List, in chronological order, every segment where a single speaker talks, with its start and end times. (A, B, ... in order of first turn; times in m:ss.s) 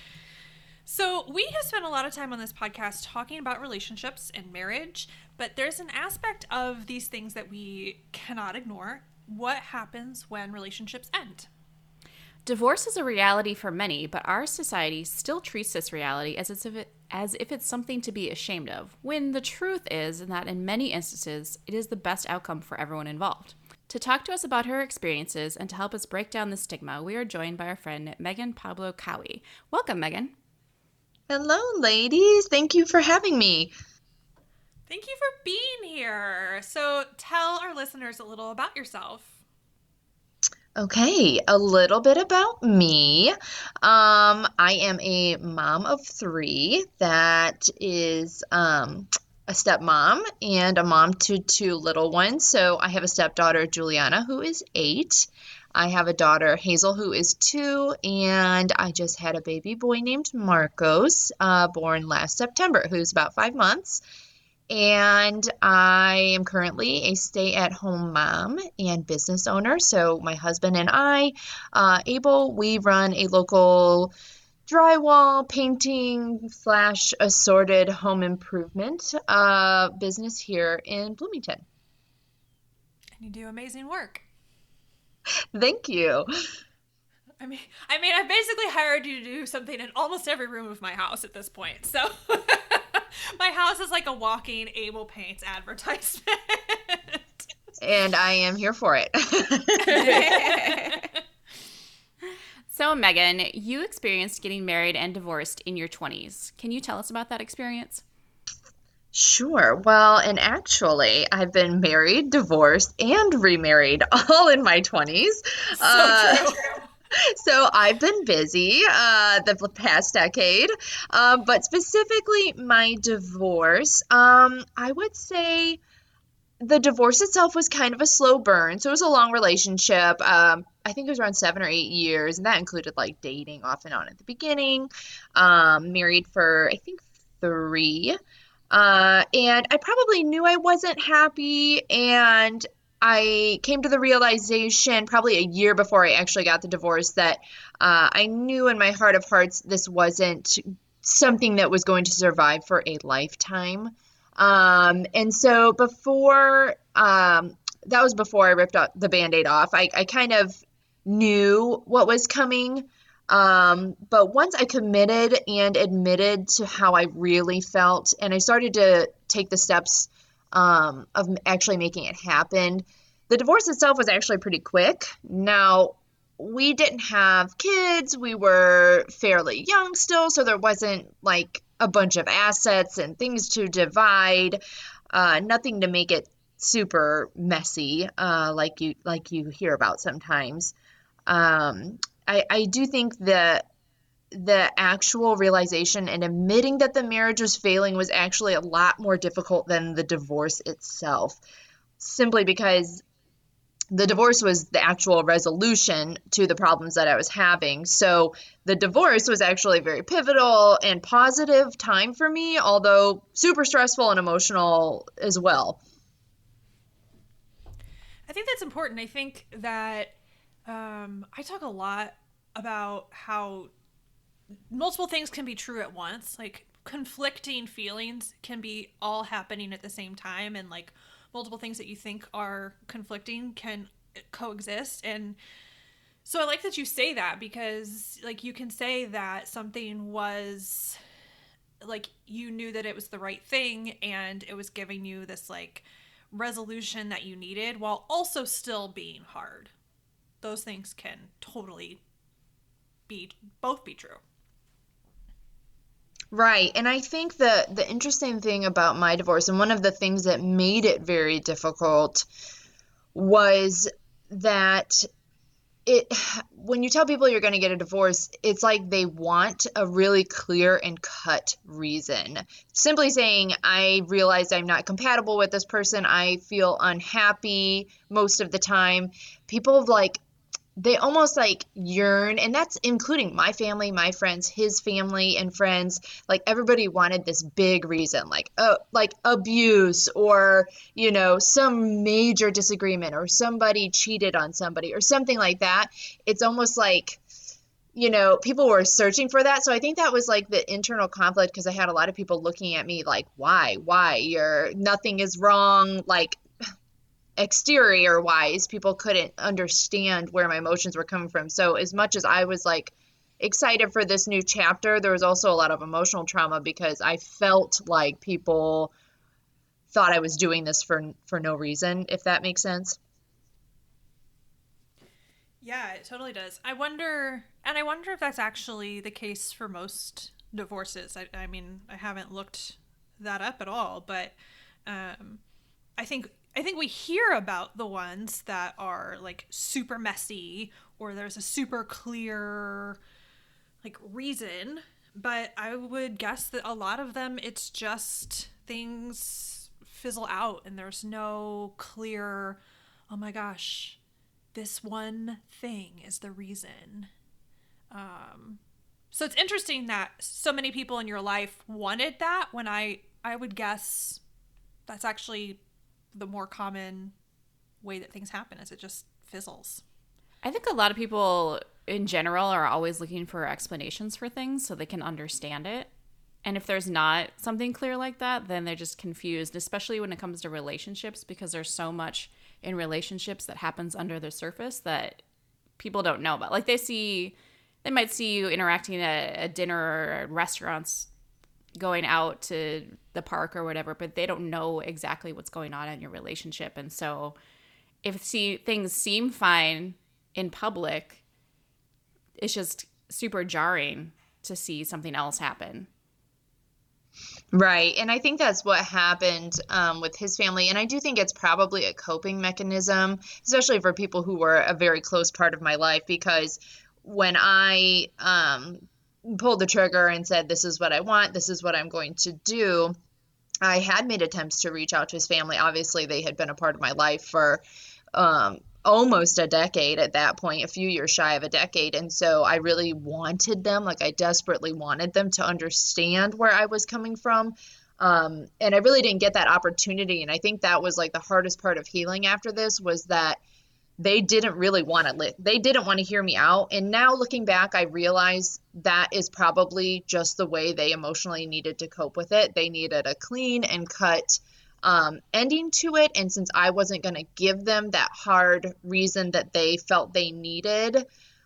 0:00.9-0:11.5 A
0:12.5-0:30.3 B
0:31.3-0:33.7 C
0:34.9-0:39.4 A
0:40.8-1:04.0 C
1:04.7-1:14.1 C
1:14.7-1:21.6 C
1:23.2-1:24.2 A
1:25.5-1:26.3 C
1:27.4-1:37.5 A
1:37.8-1:40.4 C
1:39.9-1:41.1 B
1:39.9-1:41.1 A
1:42.7-1:48.0 B
1:49.1-1:56.5 C
1:55.8-1:56.8 A
1:57.2-2:05.8 C
2:06.6-2:18.2 C
2:18.7-3:04.6 C
3:05.1-3:10.7 C
3:11.3-3:13.7 C
3:14.3-3:21.4 C
3:22.0-3:23.0 C
3:23.9-3:35.8 C
3:38.3-3:40.2 A
3:40.7-3:43.7 A
3:44.7-3:55.4 A
3:56.2-4:01.0 A
4:01.8-4:09.7 A
4:10.4-4:12.0 A
4:13.1-4:14.2 A
4:16.3-4:22.3 C
4:23.2-4:25.1 C
4:25.9-4:40.2 C
4:40.8-4:57.2 C
4:58.0-5:06.4 C
5:07.4-5:18.9 C
5:19.9-5:23.0 C
5:25.6-5:34.4 A
5:34.9-5:35.4 A
5:36.0-5:43.0 A
5:43.8-5:54.0 A
5:54.5-5:57.1 A
5:57.9-5:58.6 A
5:59.1-6:04.2 A
6:04.9-6:05.6 A
6:06.1-6:07.1 A
6:07.8-6:09.8 A
6:10.4-6:15.9 B
6:16.4-6:25.2 B
6:25.8-6:31.1 B
6:31.8-6:37.4 B
6:38.0-6:41.2 B
6:42.4-6:45.9 B
6:47.5-7:03.0 C
7:03.6-7:07.6 C
7:08.2-7:23.4 C
7:24.0-7:41.1 C